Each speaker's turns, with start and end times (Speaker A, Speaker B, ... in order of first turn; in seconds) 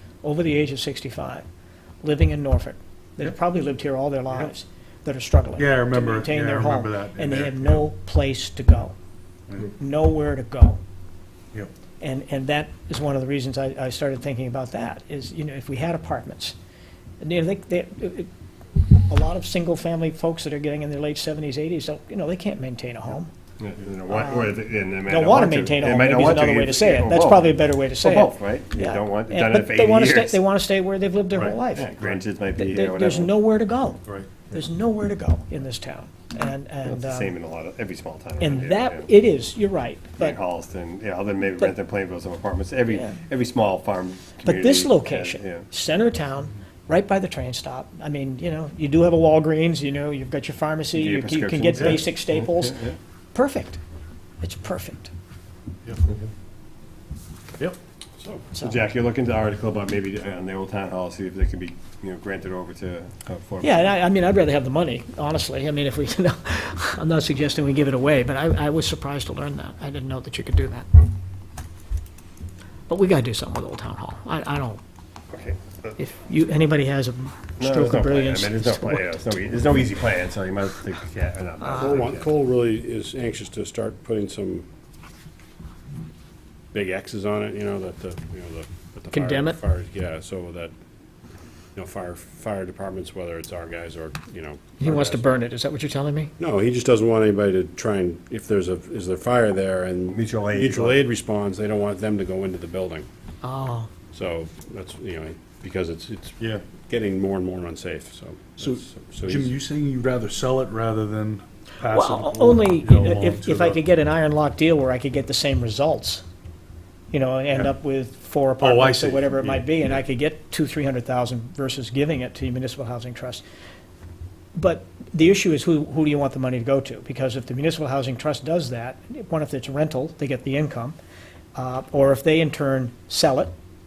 Speaker A: 0.2-1.4, 2.0-8.9, 9.7-10.8, 12.0-16.5, 17.2-18.3, 18.9-23.3, 24.1-24.5, 25.1-31.9, 32.6-37.3, 38.4-40.4, 42.9-43.2, 44.4-53.8, 54.4-55.1, 63.6-70.9, 72.9-74.8, 76.0-79.1, 81.6-82.0, 89.1-89.6, 94.8-96.3, 103.4-103.9, 111.9-116.2, 117.1-123.4, 124.5-130.9, 131.5-133.5
Speaker B: 5.5-7.9, 31.3-32.2, 34.0-34.3, 55.8-56.2, 106.4-106.6, 108.6-113.8, 118.6-120.0
Speaker C: 23.6-30.4, 31.7-33.4, 36.9-39.1, 40.2-45.7, 50.9-52.9, 58.5-63.9, 75.3-76.0, 77.6-82.3, 100.1-101.0
Speaker D: 81.8-84.7, 86.7-90.7, 91.7-95.2, 96.4-103.1, 104.1-109.6